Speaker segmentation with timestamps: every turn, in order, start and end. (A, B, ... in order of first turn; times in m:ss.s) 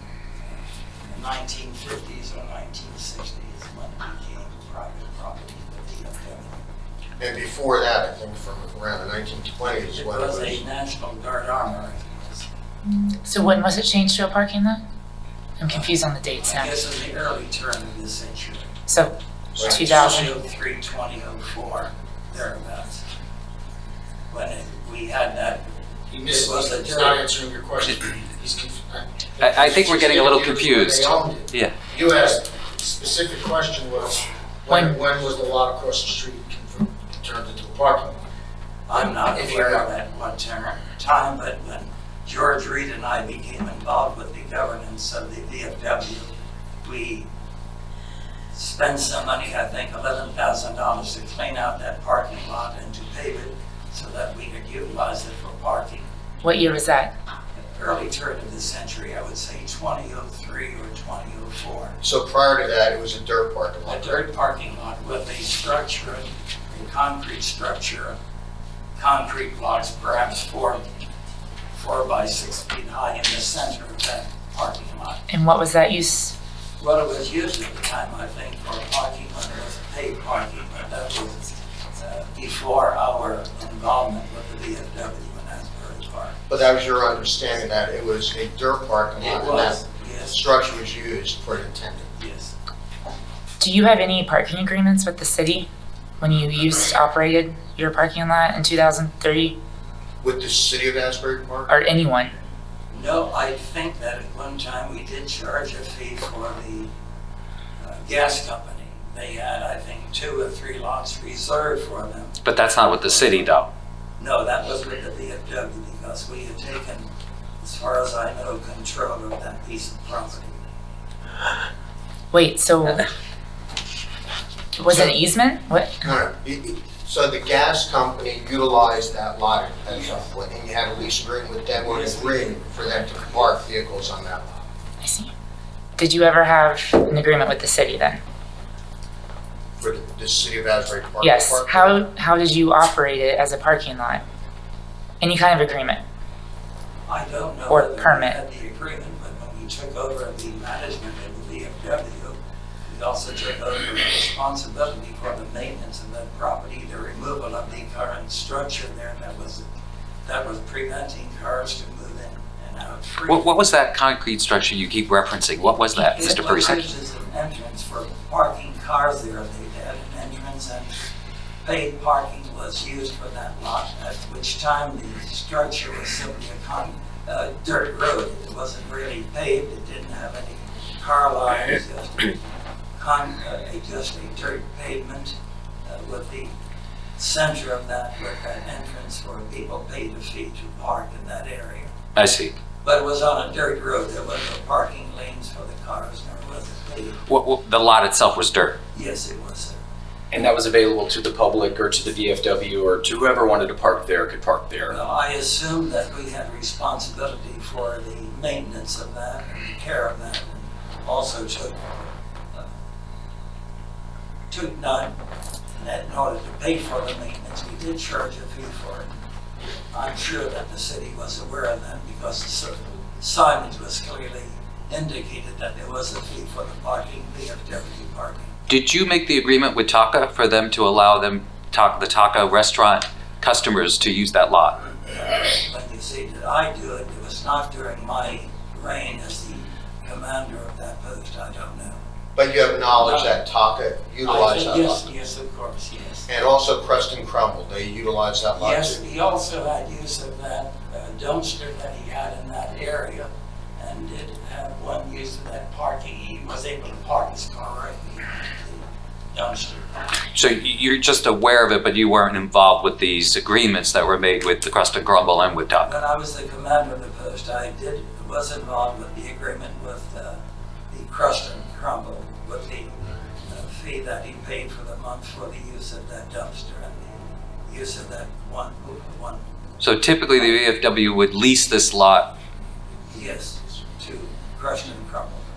0:00.4-0:06.6 A
0:07.2-0:10.6 B
0:09.6-0:12.5 A
0:12.8-0:14.8 C
0:15.6-0:16.7 C
0:15.7-0:18.8 A
0:18.9-0:20.3 C
0:19.6-0:19.9 B
0:19.6-0:23.0 A
0:24.3-0:25.6 A
0:26.1-0:38.2 D
0:26.2-0:27.2 A
0:29.4-0:31.7 E
0:38.9-0:46.3 A
0:39.4-0:39.7 D
0:46.8-0:47.3 A
0:48.5-0:56.0 A
0:56.4-0:57.1 C
0:57.7-1:02.0 A
1:02.0-1:04.2 B
1:03.8-1:08.2 A
1:09.0-1:10.9 A
1:11.7-1:15.2 A
1:15.3-1:16.3 C
1:16.8-1:26.4 A
1:26.5-1:32.1 B
1:29.2-1:30.4 A
1:32.2-1:32.5 A
1:33.6-1:35.7 C
1:36.2-1:39.6 C
1:40.2-1:41.7 B
1:41.7-1:42.3 C
1:42.9-1:46.9 A
1:47.8-1:52.4 A
1:52.4-1:53.7 E
1:53.0-1:53.5 A
1:54.2-1:57.1 A
1:57.6-2:00.6 A
2:02.3-2:03.1 C
2:04.8-2:06.0 C
2:04.9-2:05.1 B
2:06.0-2:14.5 B
2:09.9-2:10.3 A
2:11.8-2:12.6 A
2:15.0-2:15.3 C
2:16.0-2:18.2 C
2:19.8-2:22.0 B
2:21.2-2:24.2 C
2:25.2-2:26.0 C
2:27.1-2:39.6 A
2:27.7-2:28.4 C
2:40.2-2:43.8 A
2:43.3-2:46.8 E
2:46.1-2:51.0 A
2:51.6-3:02.4 A
3:03.0-3:06.5 A
3:07.2-3:11.9 A
3:12.1-3:12.5 E
3:12.8-3:17.2 A
3:17.3-3:18.8 E
3:18.9-3:19.8 A
3:20.3-3:25.0 F
3:24.9-3:32.7 A
3:34.5-3:35.1 A
3:35.7-3:39.1 A
3:39.9-3:48.5 A
3:48.7-3:54.8 E
3:55.0-4:02.0 A
4:02.4-4:05.1 B
4:03.0-4:03.3 A
4:04.2-4:06.3 A
4:06.3-4:09.0 B
4:08.6-4:19.9 A
4:20.3-4:25.9 E
4:25.8-4:30.4 A
4:30.9-4:39.4 A
4:39.8-4:42.3 E
4:43.1-4:45.4 A